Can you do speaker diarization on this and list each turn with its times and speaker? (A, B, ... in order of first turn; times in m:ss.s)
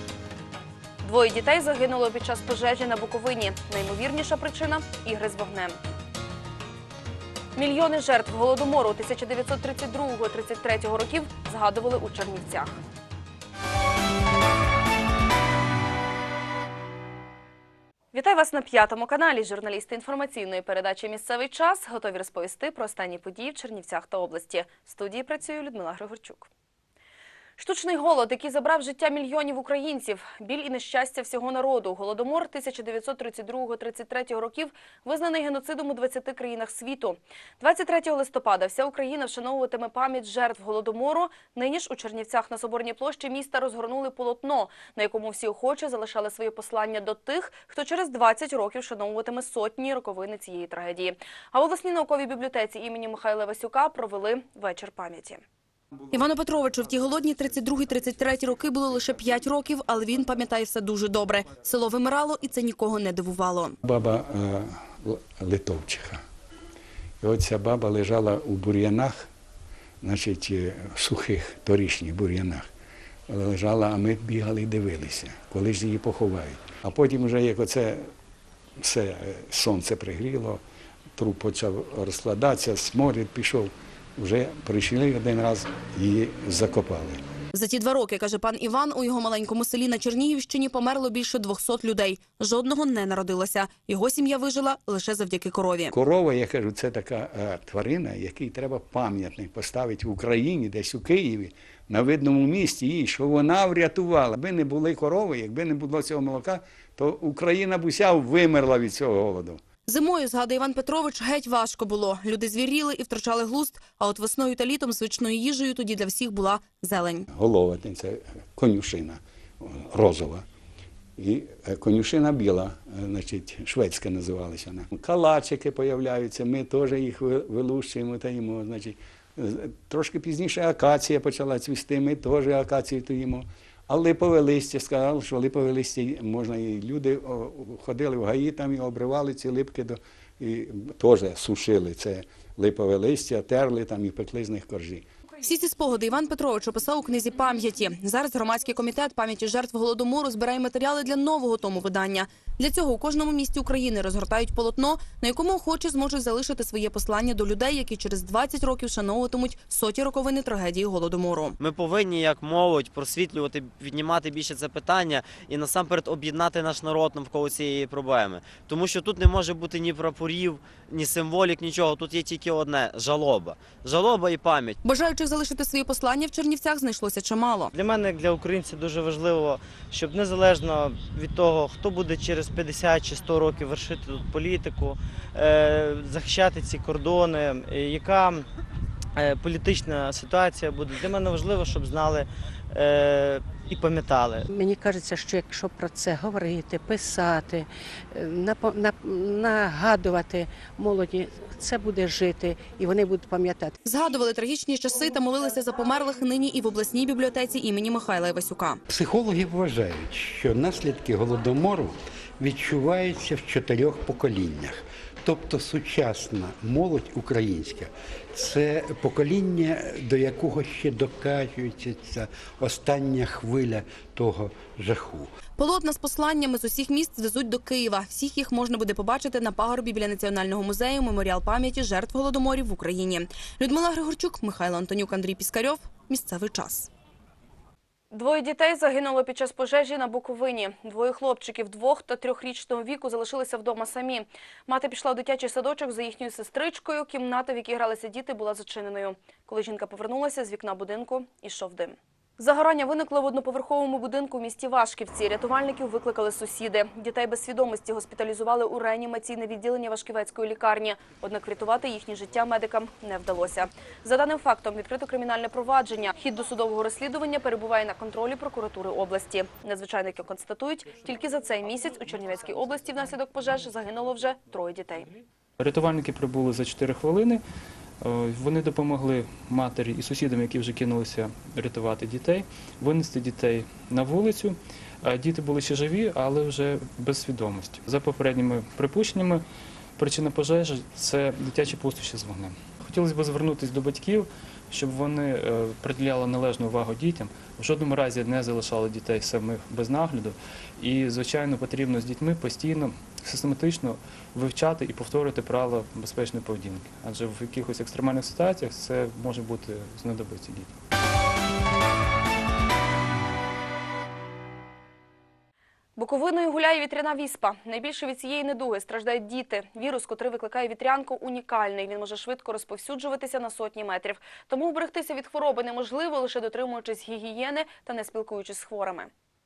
0:01.0-0:05.8 A
0:07.6-0:12.8 A
0:18.1-0:26.5 A
0:27.6-0:55.4 A
0:56.1-1:03.8 A
1:03.8-1:06.2 B
1:07.2-1:09.3 B
1:10.0-1:12.6 B
1:13.3-1:18.1 B
1:18.8-1:20.6 B
1:21.2-1:27.2 B
1:27.5-1:35.9 A
1:35.9-1:49.6 B
1:49.8-1:57.3 A
1:57.3-2:00.4 B
2:01.2-2:25.0 B
2:25.4-2:41.6 A
2:41.6-2:54.8 C
2:54.8-2:57.7 A
2:57.7-3:08.4 D
3:09.2-3:14.5 D
3:14.5-3:23.7 E
3:23.8-3:28.8 A
3:28.9-3:45.3 F
3:45.6-3:56.9 A
3:58.1-4:35.1 A
4:35.6-4:37.4 G
4:38.0-4:49.4 G
4:50.0-5:10.7 G
5:16.0-5:29.1 A